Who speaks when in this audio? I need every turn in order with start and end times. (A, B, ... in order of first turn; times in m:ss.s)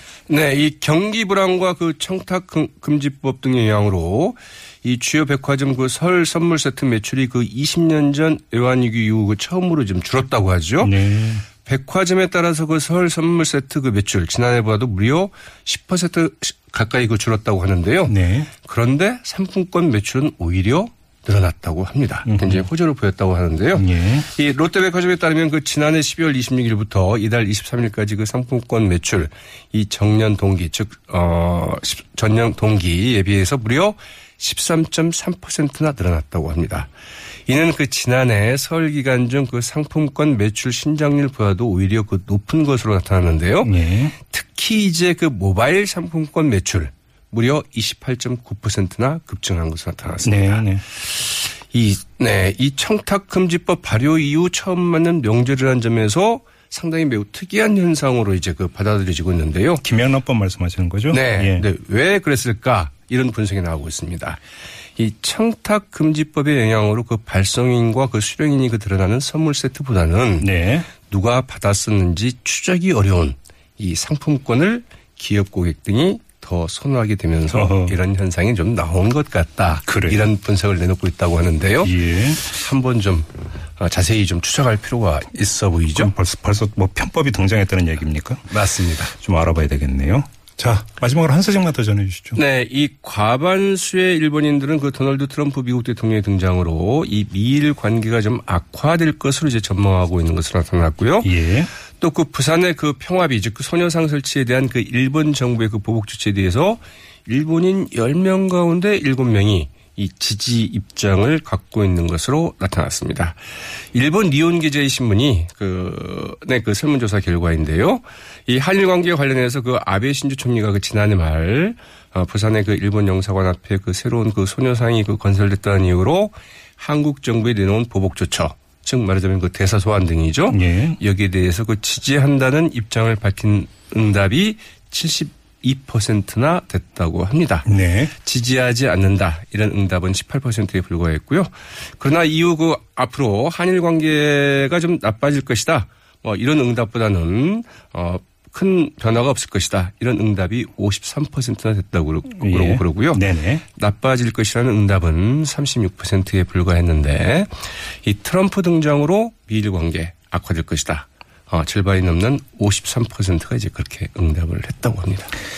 0:00.3-0:10.9 A
0:10.8-0:11.4 B
0:11.6-0:36.9 A
0:18.1-0:18.5 B
0:22.2-0:22.6 B
0:23.7-0:24.3 B
0:37.5-0:59.8 A
0:43.6-0:44.1 B
0:50.2-0:50.8 B
0:59.8-1:01.7 B
1:01.1-1:04.4 A
1:05.0-1:26.1 A
1:10.4-1:10.9 B
1:17.5-1:17.9 B
1:19.9-1:20.2 B
1:21.8-1:22.4 B
1:25.9-1:28.5 B
1:28.5-1:29.1 A
1:29.1-1:32.4 B
1:32.3-1:41.3 A
1:41.2-1:41.7 B
1:42.0-1:53.4 A
1:53.9-2:45.3 A
2:10.5-2:11.0 B
2:17.6-2:18.1 B
2:32.4-2:33.6 B